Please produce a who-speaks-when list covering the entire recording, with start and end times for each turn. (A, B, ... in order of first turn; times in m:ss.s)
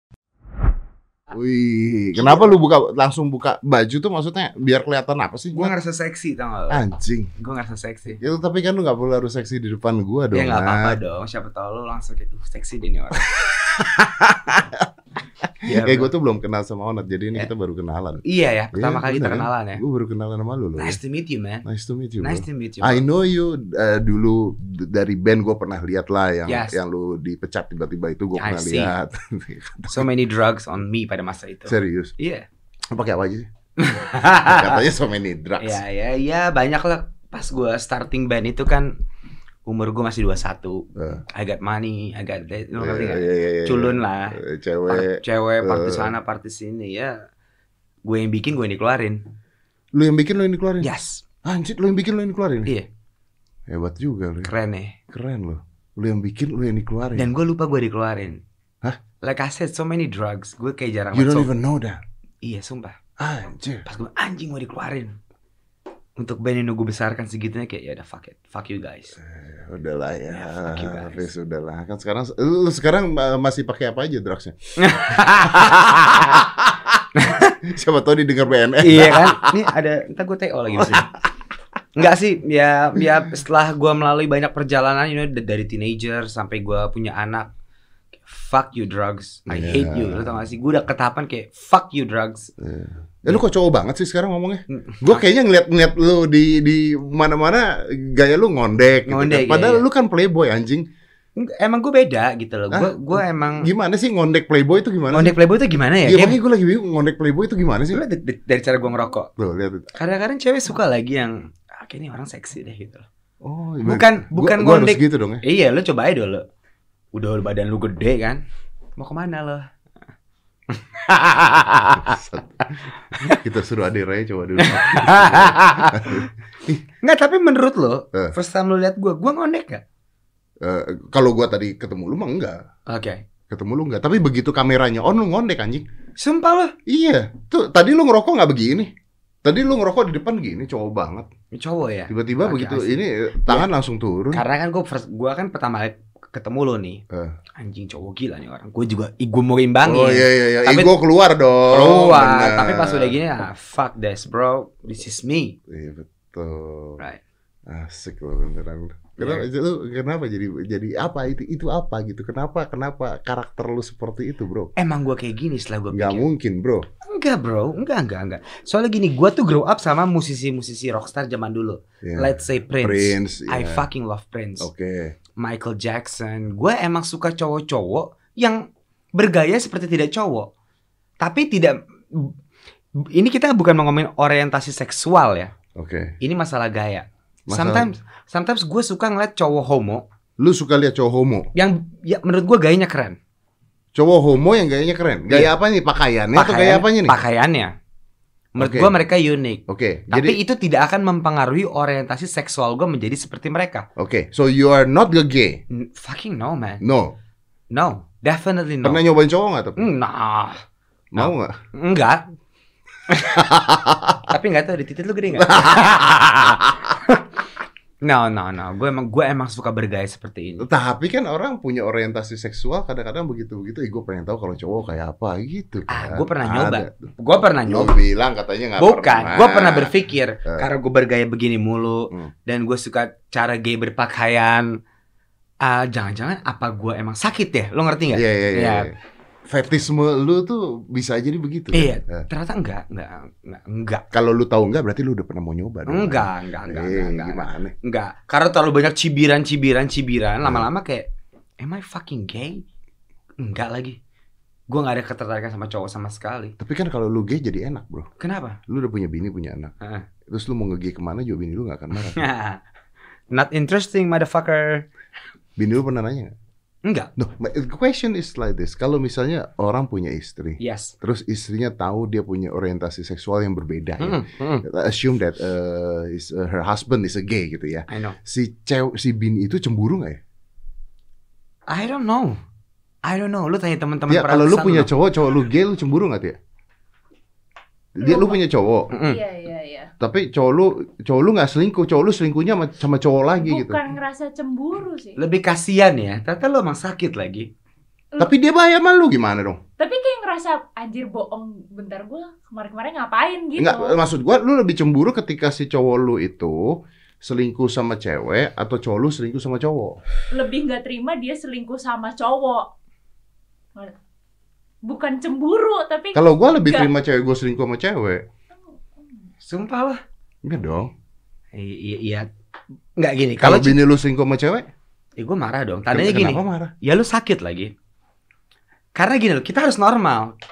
0:01.3-0:05.7 A
0:02.2-0:02.5 B
0:05.5-0:06.8 B
0:06.7-0:07.3 A
0:07.4-0:08.2 B
0:08.2-0:11.0 A
0:10.3-0:13.3 B
0:13.3-0:14.9 A
0:15.4-0:18.2 A
0:15.6-0:16.1 B
0:18.2-0:19.8 B
0:18.7-0:21.0 A
0:20.8-0:21.6 B
0:21.6-0:30.1 A
0:22.2-0:23.0 B
0:26.5-0:26.8 B
0:28.4-0:28.9 B
0:29.9-0:32.5 B
0:31.7-0:32.2 A
0:32.9-0:33.5 A
0:33.8-0:34.8 B
0:34.4-0:35.8 A
0:35.6-0:38.9 B
0:39.7-0:47.2 B
0:41.0-0:41.2 A
0:42.8-0:46.1 A
0:48.0-0:49.2 B
0:49.9-0:50.9 A
0:50.8-0:51.2 B
0:51.4-0:52.7 A
0:53.7-0:54.5 A
0:54.4-0:55.0 B
0:55.1-0:57.3 A
0:57.2-0:58.4 B
0:59.2-1:01.5 B
1:01.1-1:02.0 A
1:02.4-1:03.0 B
1:03.2-1:03.8 A
1:03.8-1:05.2 B
1:06.2-1:09.2 B
1:09.2-1:19.7 A
1:10.3-1:11.3 B
1:14.8-1:16.5 B
1:17.2-1:17.6 B
1:18.8-1:21.2 B
1:20.8-1:21.1 A
1:22.0-1:27.5 B
1:28.2-1:32.5 B
1:29.5-1:30.5 A
1:32.6-1:40.9 A
1:34.7-1:35.2 B
1:39.1-1:39.8 B
1:41.4-1:43.7 B
1:42.7-1:45.4 A
1:45.1-1:46.4 B
1:46.0-1:48.0 A
1:47.9-1:49.3 B
1:49.4-1:49.9 A
1:50.0-1:53.1 B
1:53.4-1:55.4 A
1:53.8-1:56.4 B
1:57.1-1:58.4 B
1:59.0-1:59.7 B
2:00.7-2:02.2 B
2:02.0-2:02.6 A
2:03.1-2:03.4 B
2:03.3-2:06.8 A
2:04.6-2:06.3 B
2:07.0-2:09.8 B
2:10.6-2:12.6 A
2:12.9-2:13.2 B
2:13.5-2:15.9 A
2:16.2-2:16.8 B
2:16.9-2:18.9 A
2:19.4-2:21.3 A
2:21.5-2:23.7 B
2:22.1-2:24.4 A
2:24.3-2:27.0 B
2:27.1-2:27.4 A
2:27.6-2:31.0 B
2:29.8-2:33.2 A
2:31.7-2:35.6 B
2:35.7-2:37.0 A
2:37.7-2:44.7 A
2:39.2-2:39.5 B
2:44.8-2:46.2 B
2:45.9-2:46.8 A
2:47.0-2:54.7 B
2:52.0-2:53.9 A
2:54.6-2:55.2 A
2:55.4-2:58.6 B
2:59.2-3:00.5 B
3:01.2-3:02.4 B
3:03.1-3:05.5 B
3:05.8-3:06.2 A
3:06.2-3:10.0 B
3:07.5-3:07.9 A
3:10.4-3:11.5 A
3:11.5-3:13.2 B
3:14.0-3:17.2 A
3:16.3-3:17.7 B
3:18.6-3:23.9 B
3:18.6-3:18.9 A
3:19.7-3:20.4 A
3:24.0-3:25.6 A
3:25.7-3:26.8 B
3:26.8-3:27.2 A
3:27.7-3:29.0 B
3:28.8-3:29.8 A
3:29.8-3:30.6 B
3:31.1-3:31.6 A
3:31.2-3:32.3 B
3:33.1-3:33.5 B
3:33.2-3:34.3 A
3:34.3-3:37.2 B
3:35.4-3:36.9 A
3:38.0-3:40.7 B
3:40.6-3:50.7 A
3:45.9-3:47.9 B
3:48.8-3:54.8 B
3:55.6-3:58.9 B
3:58.1-3:59.0 A
3:59.5-4:02.3 A
4:01.7-4:04.0 B
4:04.1-4:07.7 A
4:05.9-4:11.1 B
4:10.4-4:10.7 A
4:11.6-4:12.6 B
4:13.4-4:14.0 B
4:14.7-4:16.6 B
4:16.6-4:18.1 A
4:18.2-4:18.6 B
4:18.7-4:19.7 A
4:19.8-4:20.1 B
4:20.3-4:22.2 A
4:22.0-4:22.6 B
4:23.3-4:24.9 B
4:25.6-4:26.3 A
4:26.8-4:27.1 B
4:27.2-4:40.2 A
4:30.6-4:30.9 B
4:34.0-4:34.6 B
4:37.9-4:38.2 B
4:41.7-4:42.4 B
4:43.1-4:44.9 B
4:44.1-4:46.4 A
4:48.0-4:48.9 A
4:48.0-4:48.4 C
4:48.9-4:49.2 B
4:49.0-4:49.9 C
4:50.0-4:53.8 A
4:53.4-4:55.2 C
4:55.2-4:57.5 B
4:58.2-4:59.6 A
4:59.8-5:04.0 C
5:03.6-5:10.0 A
5:10.3-5:12.7 C
5:14.8-5:16.9 C
5:16.1-5:18.3 A
5:19.4-5:20.0 B
5:20.4-5:20.9 A
5:21.5-5:22.3 B
5:23.0-5:23.8 B
5:23.4-5:24.7 A
5:25.2-5:27.7 B
5:25.9-5:26.7 A
5:29.0-5:30.4 B